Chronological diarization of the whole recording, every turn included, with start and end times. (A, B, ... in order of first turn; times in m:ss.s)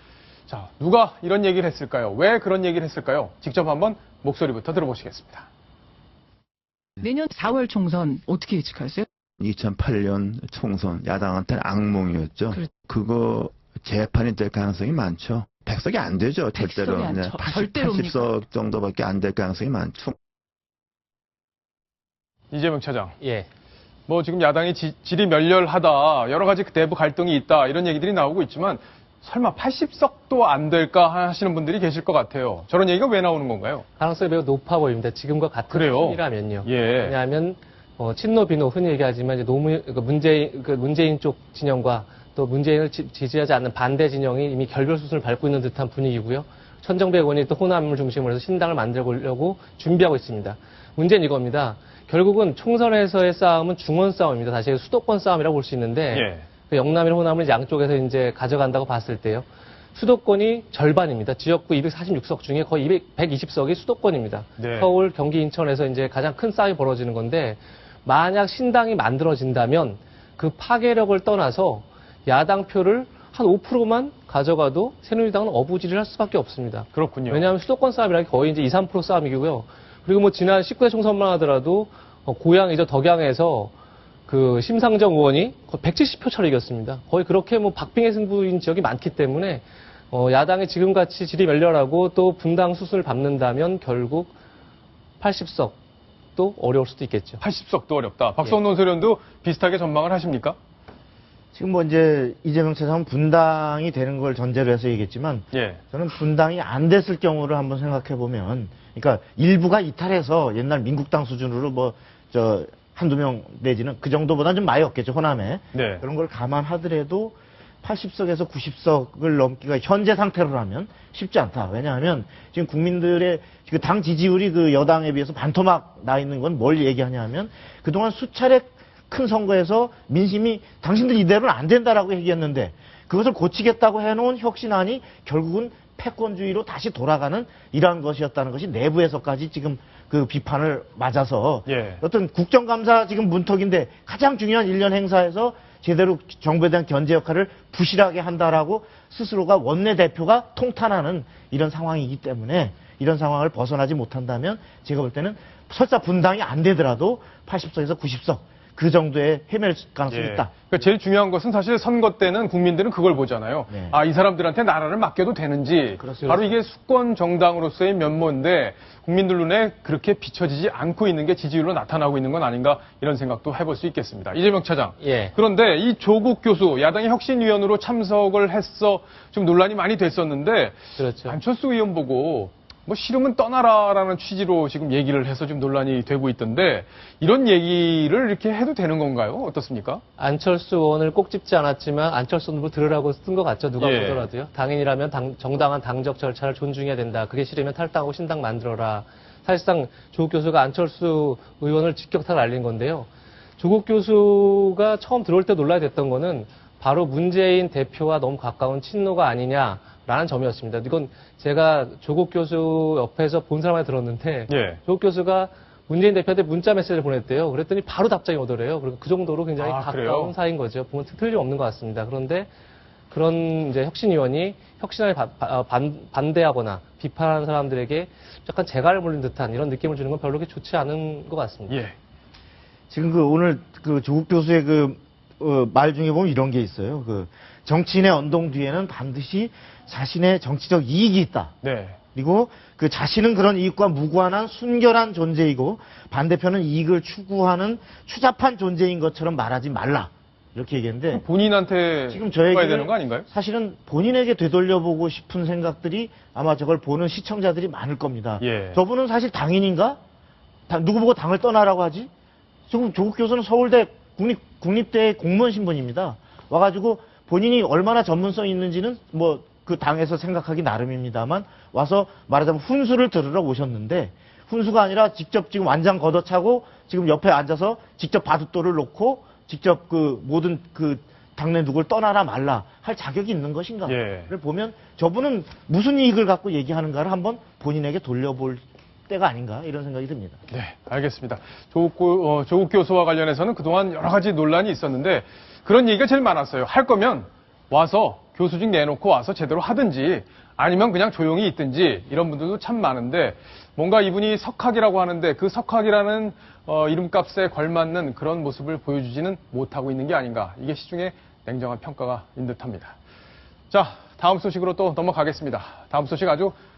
0:00.5-0:05.5 A
0:07.0-0:09.1 B
0:09.4-0:20.2 C
0:16.5-0:18.3 B
0:22.5-0:23.2 A
0:23.2-0:23.5 D
0:24.1-0:33.8 A
0:34.0-1:23.7 D
0:35.7-0:37.1 A
0:56.1-0:56.4 A
1:04.6-1:04.9 A
1:16.9-1:17.5 A
1:24.3-1:34.3 D
1:35.2-1:35.8 D
1:36.4-1:37.4 D
1:37.4-1:40.6 A
1:41.5-2:40.5 E
1:45.5-1:45.8 A
1:55.7-1:56.0 A
2:21.7-2:22.0 A
2:40.1-3:10.0 A
2:43.7-2:44.0 E
2:46.0-2:46.5 E
2:55.0-2:55.3 D
3:01.0-3:01.4 D
3:10.2-3:42.5 D
3:13.8-3:14.3 A
3:34.5-3:34.8 A
3:39.6-3:40.3 A
3:43.1-3:51.8 D
3:51.7-3:51.9 A
3:52.9-4:01.5 E
4:01.6-4:02.0 A
4:02.1-4:11.2 E
4:11.1-4:13.2 A
4:12.1-4:20.0 E
4:18.4-4:18.8 A
4:20.7-4:22.1 E
4:22.7-4:50.4 E
4:43.8-4:44.3 A
4:50.5-5:12.9 A
5:13.7-5:16.5 A